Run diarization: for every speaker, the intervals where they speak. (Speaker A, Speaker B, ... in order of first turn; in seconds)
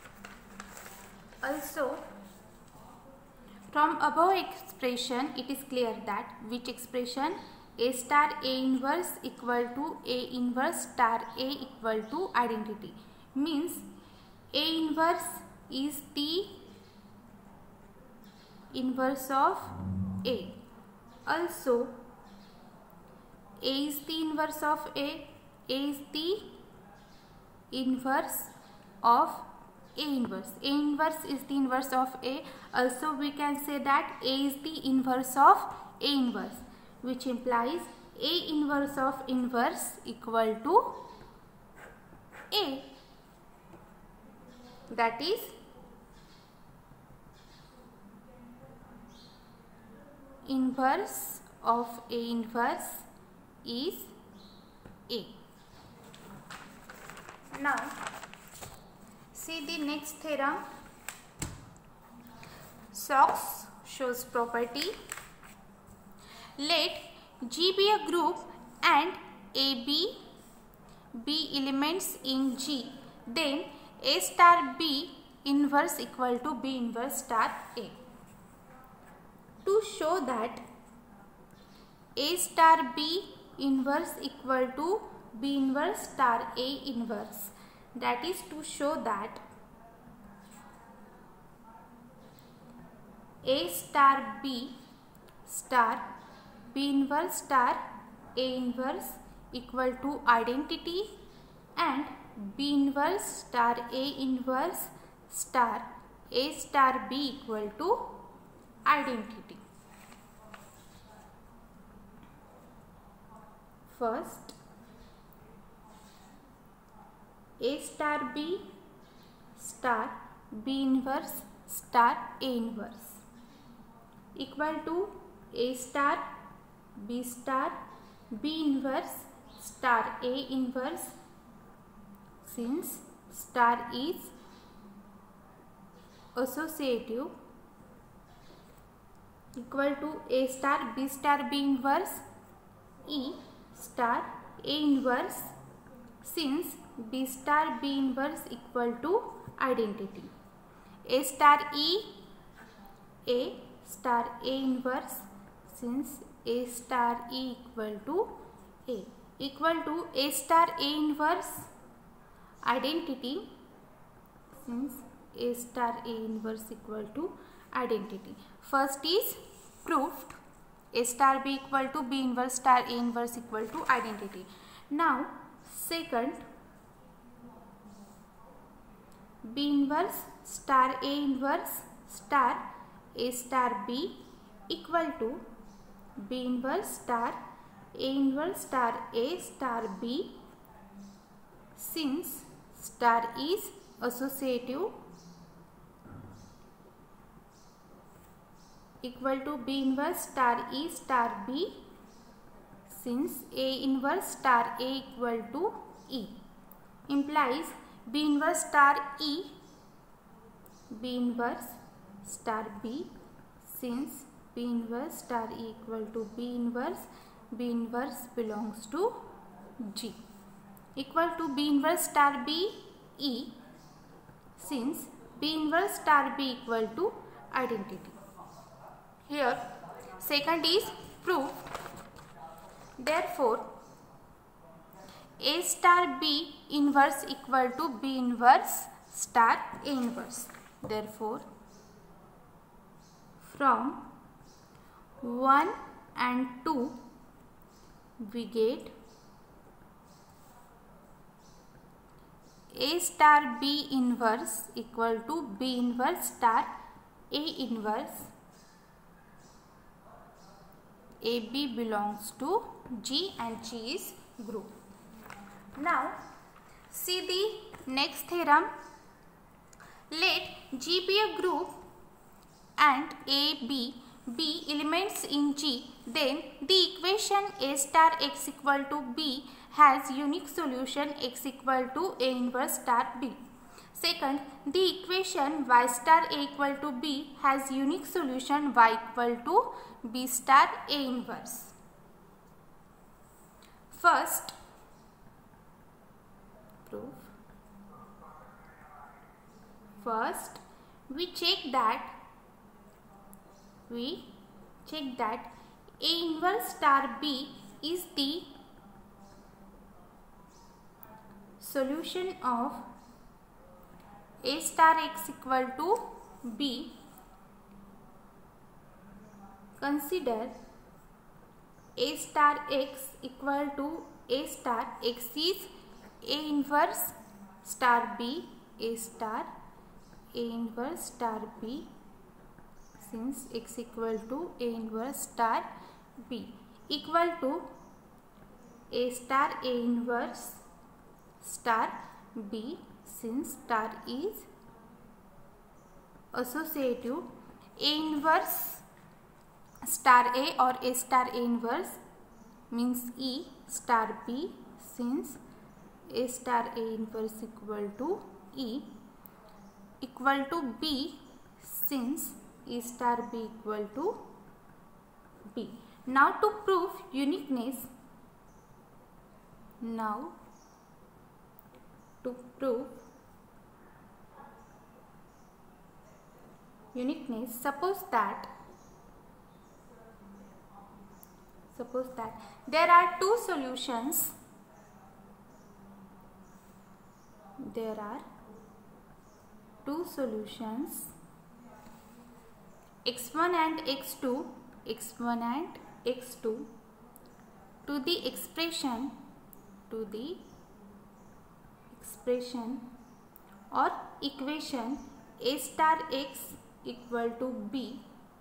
Speaker A: 1.4-2.1, 3.7-13.9, 14.5-16.6, 18.7-20.6, 21.3-22.0, 23.6-26.6, 27.7-41.0, 42.5-42.9, 44.9-45.6, 50.5-53.1, 53.6-54.1, 55.1-55.4, 57.5-58.0, 59.3-60.6, 62.9-65.0, 66.6-70.2, 71.2-78.0, 79.6-80.6, 82.2-89.4, 93.4-94.8, 95.5-96.1, 96.7-101.2, 101.8-108.3, 108.9-109.6, 113.9-114.6, 117.6-118.7, 119.6-123.2, 124.4-126.3, 127.0-127.8, 128.3-131.2, 132.4-134.3, 136.3-137.3, 139.6-142.2, 143.1-145.6, 146.2-150.3, 151.1-152.2, 153.3-161.7, 162.7-163.5, 164.6-170.4, 170.9-176.4, 179.4-185.4, 186.2-187.4, 187.9-190.4, 191.8-195.0, 199.0-201.9, 202.9-206.4, 207.1-209.6, 210.9-220.2, 220.9-223.6, 224.6-228.2, 229.3-231.7, 233.0-233.7, 235.4-241.5, 243.4-244.1, 245.2-247.0, 248.2-248.9, 252.7-256.7, 257.3-258.3, 261.2-264.7, 265.8-266.2, 266.9-268.7, 270.1-271.8, 272.8-283.4, 283.9-291.8, 293.9-294.5, 296.9-297.3, 300.0-302.1, 303.9-308.6, 311.6-312.9, 314.4-317.0, 319.8-320.6, 322.0-329.5, 330.3-331.9, 333.0-337.7, 338.9-340.6, 341.4-344.5, 346.3-348.9, 349.8-352.0, 352.7-355.4, 356.1-359.0, 360.0-364.3, 365.5-367.9, 369.8-370.4, 372.2-373.0, 376.9-378.5, 381.8-384.4, 387.6-388.3, 389.8-391.1, 393.1-396.7, 397.9-399.2, 399.9-400.4, 401.9-402.9, 403.7-408.1